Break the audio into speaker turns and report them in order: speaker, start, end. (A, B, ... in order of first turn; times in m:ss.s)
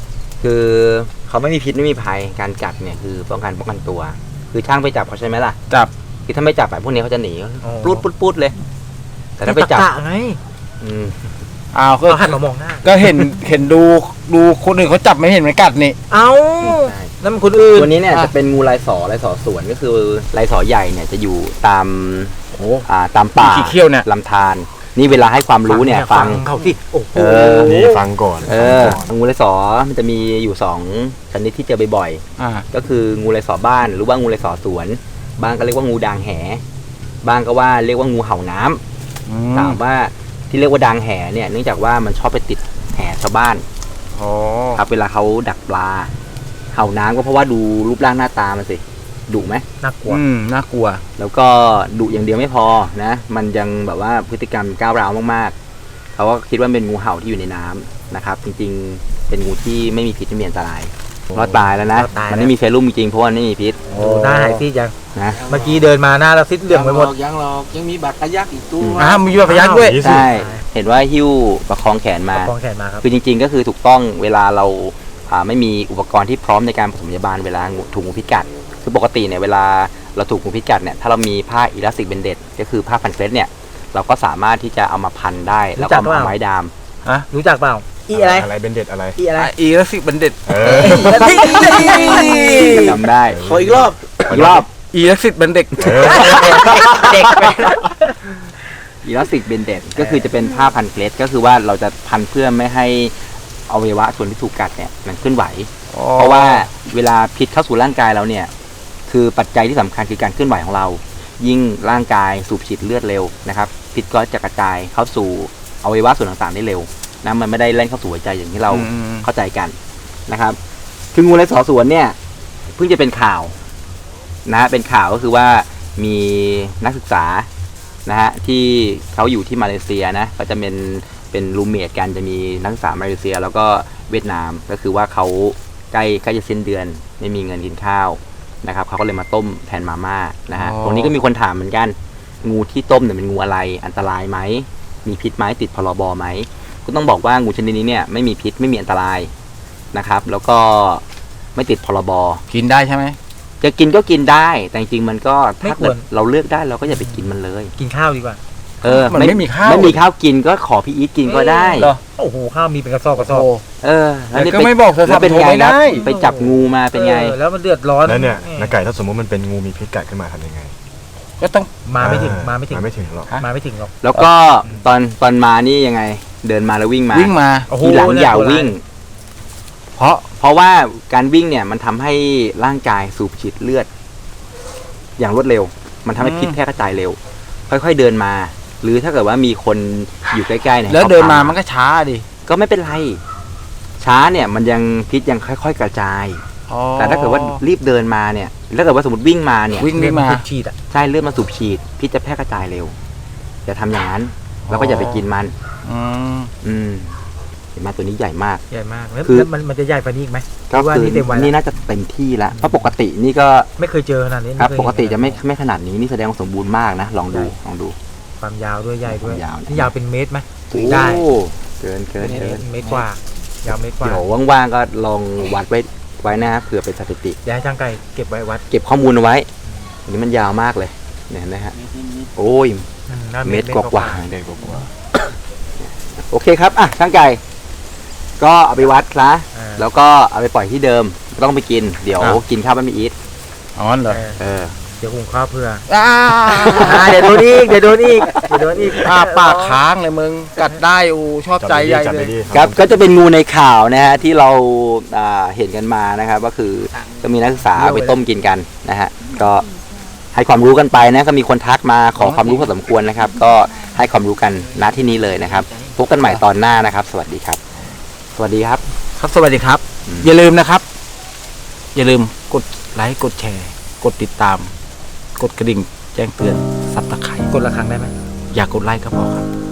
0:00.4-0:05.6 A
0:06.3-0:08.6 A
0:07.6-0:08.0 B
0:09.4-0:09.9 A
0:09.4-0:10.4 B
0:10.8-0:11.2 A
0:11.7-0:16.0 C
0:12.1-0:12.8 B
0:16.1-0:17.9 B
0:16.6-0:17.1 A
0:17.7-0:26.4 A
0:22.5-0:22.8 C
0:23.4-0:24.0 C
0:25.7-0:28.0 B
0:27.1-0:27.8 A
0:27.5-0:29.1 D
0:28.4-0:36.6 A
0:32.4-0:32.6 C
0:37.2-0:38.8 A
0:39.3-0:39.8 C
0:39.5-0:43.6 A
0:44.2-0:44.8 C
0:44.8-0:46.1 A
0:46.7-0:49.6 A
0:49.8-0:50.2 B
0:50.1-0:51.0 C
0:51.2-0:55.5 A
0:56.2-1:03.8 A
1:01.3-1:01.6 D
1:01.9-1:02.5 B
1:03.9-1:04.6 C
1:03.9-1:04.9 B
1:05.1-1:05.5 A
1:05.3-1:05.9 E
1:05.5-1:07.1 B
1:06.7-1:09.2 E
1:08.8-1:09.2 A
1:09.0-1:10.1 C
1:09.3-1:10.3 D
1:09.4-1:10.6 B
1:10.0-1:26.7 A
1:12.3-1:13.0 B
1:25.8-1:26.3 B
1:27.3-1:28.5 B
1:28.1-1:29.2 D
1:29.2-1:29.5 B
1:29.4-1:32.8 C
1:30.5-1:31.6 D
1:30.6-1:32.9 B
1:31.7-1:32.7 E
1:32.5-1:33.4 A
1:33.2-1:34.6 D
1:33.4-1:34.1 E
1:34.3-1:37.5 C
1:34.3-1:34.6 A
1:35.8-1:36.7 D
1:36.0-1:38.3 B
1:39.0-1:43.1 A
1:40.0-1:40.3 B
1:43.7-1:48.5 A
1:45.9-1:46.7 C
1:49.1-1:59.7 A
1:58.7-1:59.3 C
2:00.3-2:00.6 A
2:01.1-2:02.2 A
2:02.7-2:03.6 A
2:04.4-2:07.5 A
2:08.0-2:29.3 A
2:20.5-2:21.1 C
2:29.9-2:31.0 A
2:31.6-2:32.4 A
2:32.5-2:33.2 C
2:33.6-2:37.7 A
2:35.6-2:36.0 B
2:37.8-2:38.4 B
2:38.8-2:41.9 A
2:38.8-2:40.0 C
2:41.3-2:43.5 B
2:41.7-2:42.0 C
2:43.2-2:43.6 C
2:43.8-2:47.4 A
2:44.3-2:46.0 C
2:45.8-2:48.8 B
2:48.0-2:50.8 D
2:51.4-2:51.7 C
2:51.8-2:52.8 B
2:52.0-2:53.3 D
2:53.4-2:53.9 B
2:54.0-2:58.8 A
2:57.1-2:57.7 C
2:57.7-2:58.7 B
3:00.0-3:00.2 C
3:00.3-3:03.9 A
3:05.2-3:11.6 A
3:06.2-3:06.6 C
3:10.9-3:12.2 C
3:12.4-3:13.2 A
3:14.0-3:16.4 A
3:16.7-3:17.6 C
3:17.0-3:19.9 A
3:19.7-3:20.4 C
3:19.8-3:20.7 B
3:20.9-3:22.9 A
3:23.6-3:25.5 A
3:24.7-3:25.2 C
3:25.8-3:26.5 C
3:26.6-3:27.2 A
3:27.7-3:28.6 A
3:28.7-3:31.5 B
3:29.2-3:29.5 A
3:30.7-3:33.7 A
3:32.5-3:32.8 B
3:33.8-3:35.4 B
3:34.6-3:38.0 A
3:38.4-3:41.2 B
3:39.0-3:39.9 A
3:40.7-3:42.7 A
3:42.2-3:44.2 B
3:44.0-3:47.4 A
3:47.4-3:48.6 B
3:48.7-3:49.5 A
3:50.1-3:51.7 A
3:51.7-3:52.3 E
3:52.4-3:52.9 A
3:53.1-3:54.2 B
3:53.4-3:54.9 A
3:54.3-3:54.9 D
3:55.8-3:57.4 A
3:58.4-4:03.1 A
3:59.5-3:59.8 B
4:03.8-4:04.2 C
4:04.1-4:04.4 B
4:04.4-4:04.8 A
4:05.0-4:05.8 B
4:05.9-4:07.4 C
4:06.4-4:08.8 A
4:06.7-4:09.8 B
4:08.9-4:12.4 C
4:11.6-4:12.9 D
4:12.5-4:19.7 A
4:17.8-4:18.2 B
4:20.3-4:27.6 A
4:22.2-4:22.7 C
4:25.6-4:25.9 E
4:28.3-4:28.8 A
4:29.2-4:30.8 C
4:30.0-4:30.3 A
4:31.9-4:34.7 C
4:35.4-4:37.5 C
4:37.5-4:38.1 B
4:38.5-4:39.5 C